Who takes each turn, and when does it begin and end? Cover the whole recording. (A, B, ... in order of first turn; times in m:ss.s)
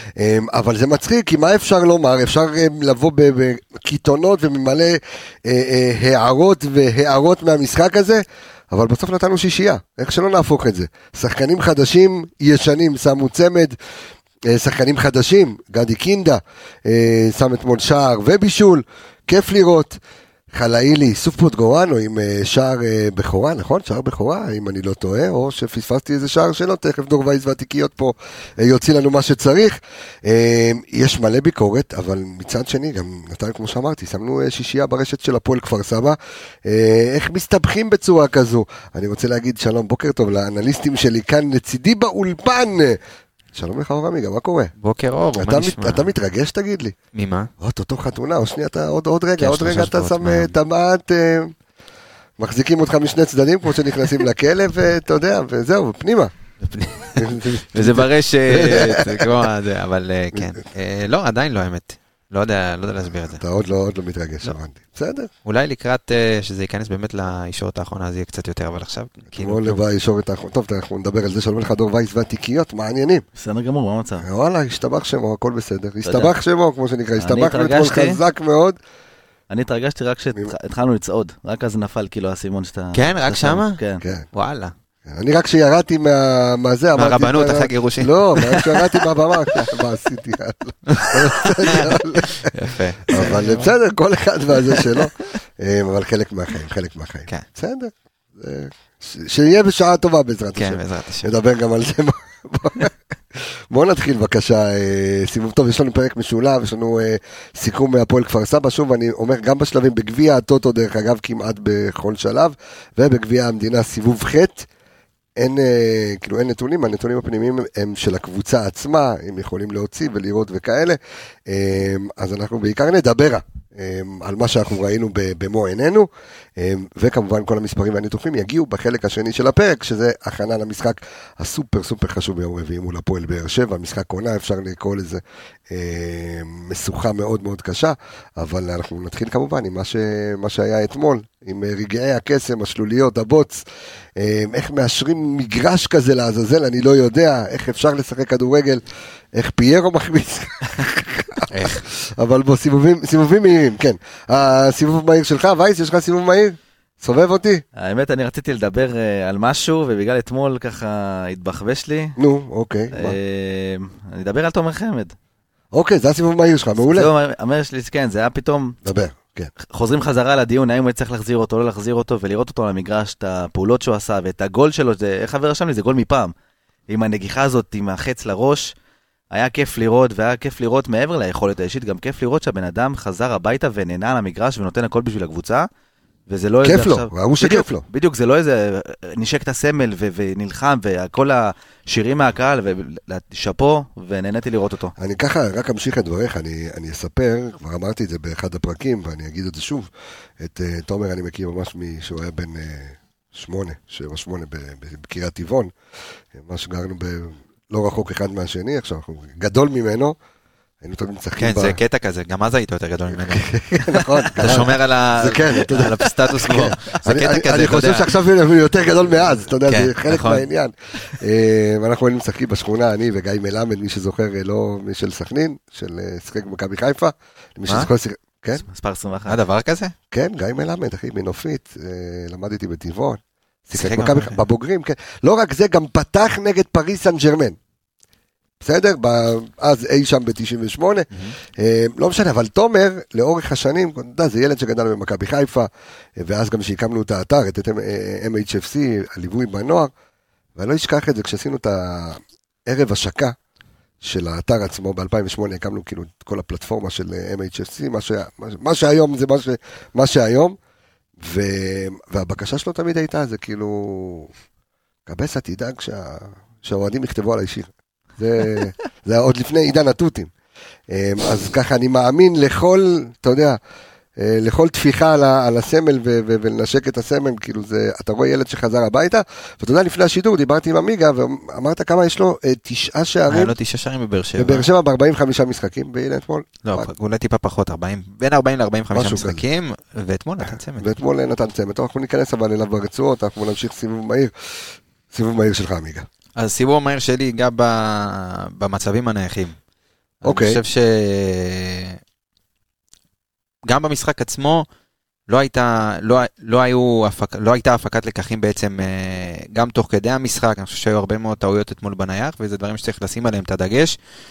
0:00.2-0:13.8 A
0:14.5-0:20.0 A
0:20.5-0:43.0 A
0:43.5-0:44.7 A
0:44.8-0:46.1 B
0:45.4-0:47.0 A
0:47.1-0:47.5 B
0:47.6-0:51.5 A
0:49.4-0:50.5 B
0:52.4-0:56.3 A
0:56.6-1:03.4 B
0:57.1-0:59.4 A
1:03.4-1:05.3 A
1:05.4-1:09.8 B
1:09.3-1:13.2 A
1:13.4-1:14.2 C
1:14.2-1:18.8 A
1:16.0-1:16.3 C
1:17.2-1:18.2 C
1:19.5-1:24.0 C
1:22.9-1:23.8 B
1:24.3-1:24.7 B
1:25.1-1:32.5 A
1:27.0-1:29.6 B
1:30.9-1:33.7 B
1:33.1-1:54.6 A
1:40.6-1:41.3 B
1:55.4-2:23.6 A
2:24.2-2:28.8 A
2:29.3-2:37.6 A
2:31.5-2:31.8 B
2:37.7-2:42.2 C
2:42.2-2:43.2 A
2:42.9-2:45.1 C
2:45.7-2:47.1 A
2:46.8-2:48.8 C
2:48.8-2:49.5 A
2:49.6-2:56.3 C
2:56.9-2:58.7 C
2:59.3-3:05.7 C
3:06.3-3:14.9 C
3:06.6-3:07.8 A
3:15.0-3:19.9 A
3:20.4-3:25.7 A
3:26.3-3:30.2 A
3:30.8-3:31.8 A
3:31.4-3:38.1 B
3:33.1-3:48.6 A
3:39.7-3:40.5 B
3:48.6-3:49.4 C
3:49.3-3:49.9 B
3:50.1-3:57.6 A
3:53.8-3:54.4 B
3:58.6-4:09.9 A
4:10.6-4:13.3 A
4:14.0-4:20.6 A
4:21.2-4:24.3 A
4:25.1-4:30.3 A
4:30.9-4:33.6 A
4:34.2-4:43.5 A
4:43.3-4:44.7 B
4:44.4-4:46.9 A
4:46.6-4:50.9 B
4:48.9-4:49.4 A
4:50.4-4:56.1 A
4:56.4-4:59.6 B
5:00.2-5:02.0 B
5:00.2-5:00.6 A
5:03.6-5:04.6 B
5:05.3-5:13.9 B